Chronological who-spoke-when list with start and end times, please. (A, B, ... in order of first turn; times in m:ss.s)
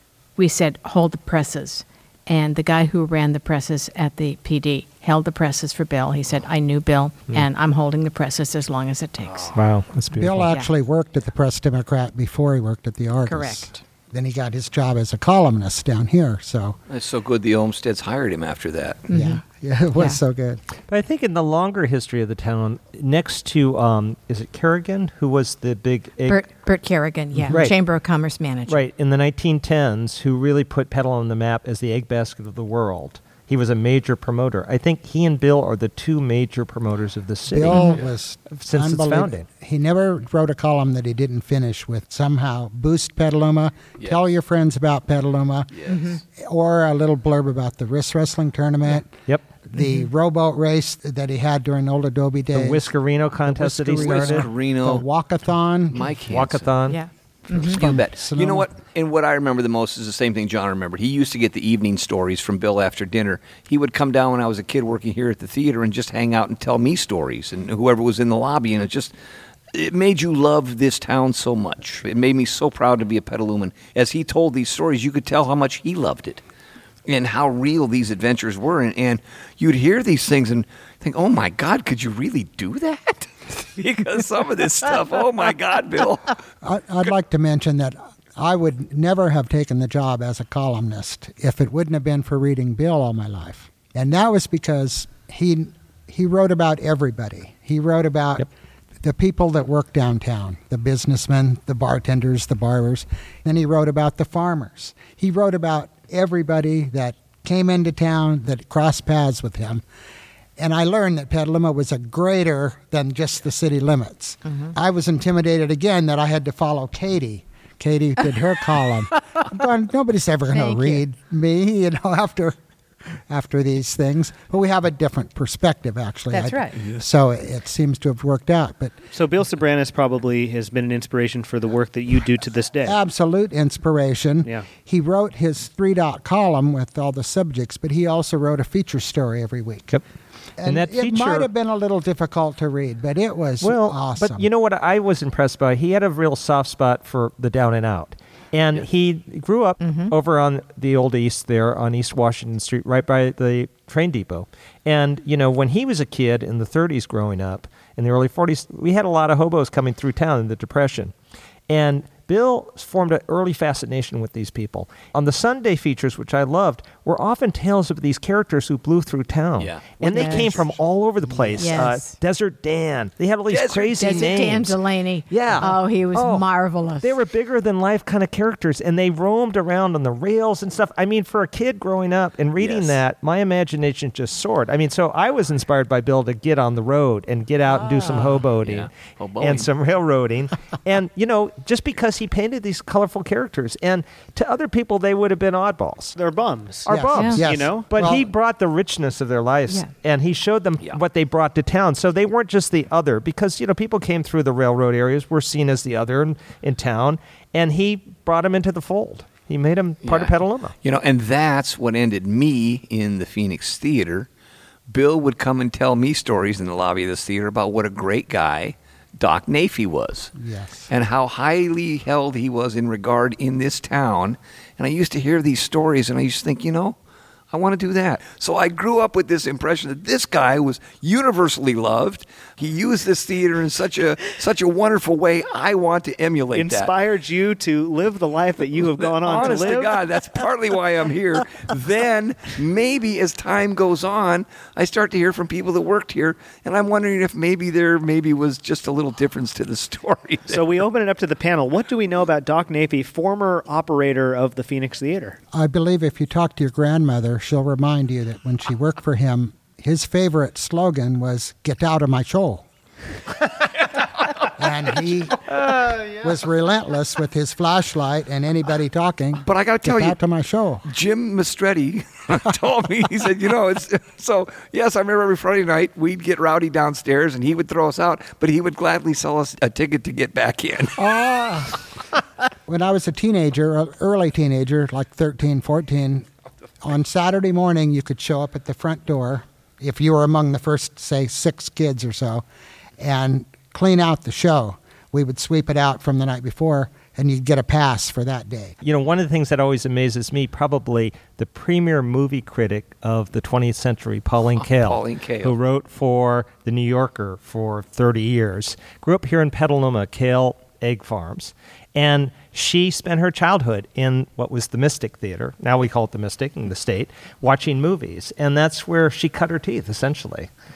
0:00.4-0:09.6 A
0:09.6-0:10.5 B
0:10.2-0:16.8 C
0:13.3-0:13.8 A
0:16.9-0:19.1 D
0:19.1-0:19.4 A
0:19.1-0:20.6 C
0:20.9-0:26.4 B
0:26.3-0:28.8 A
0:27.5-0:27.7 B
0:28.7-0:38.0 B
0:37.5-0:45.7 C
0:37.7-0:38.0 A
0:38.5-0:39.4 B
0:45.7-0:46.0 D
0:45.9-0:46.2 A
0:46.4-0:49.2 C
0:49.7-0:52.9 C
0:52.5-0:54.5 B
0:53.5-0:56.1 C
0:53.9-0:55.0 D
0:55.9-0:56.7 D
0:56.3-0:57.0 B
0:56.9-0:57.8 A
0:57.5-1:09.1 D
0:57.6-0:58.7 C
1:09.7-1:16.4 D
1:17.1-1:26.4 D
1:26.6-1:38.5 C
1:39.0-1:49.8 C
1:50.6-2:02.6 C
2:00.5-2:01.0 A
2:03.3-2:09.0 C
2:06.3-2:06.8 A
2:09.1-2:13.0 E
2:12.8-2:20.0 C
2:20.6-2:24.5 C
2:20.7-2:21.5 B
2:23.6-2:41.1 B
2:29.8-2:30.1 A
2:41.7-2:54.8 B
2:49.6-2:50.6 D
2:50.1-2:50.7 C
2:50.1-2:50.5 A
2:51.2-2:51.9 C
2:51.6-2:52.2 A
2:53.5-2:54.6 D
2:54.0-2:57.1 A
2:55.3-2:56.5 B
2:57.0-3:16.2 B
3:02.6-3:03.0 D
3:08.1-3:09.7 D
3:16.2-3:17.9 E
3:16.9-3:30.7 B
3:16.9-3:18.3 C
3:17.1-3:17.4 A
3:30.0-3:34.3 D
3:34.9-3:40.3 D
3:40.4-3:40.9 C
3:40.9-3:47.0 D
3:47.5-3:56.9 D
3:56.5-4:00.0 E
3:59.1-4:10.6 D
4:10.5-4:15.4 E
4:15.5-4:22.6 C
4:24.6-4:25.5 C
4:26.2-4:30.8 C
4:29.4-4:30.2 D
4:30.8-4:41.0 D
4:41.0-4:41.8 C
4:42.7-4:46.3 C
4:46.8-4:52.4 C
4:53.0-4:58.8 C
4:58.8-5:20.5 B
5:04.5-5:05.5 D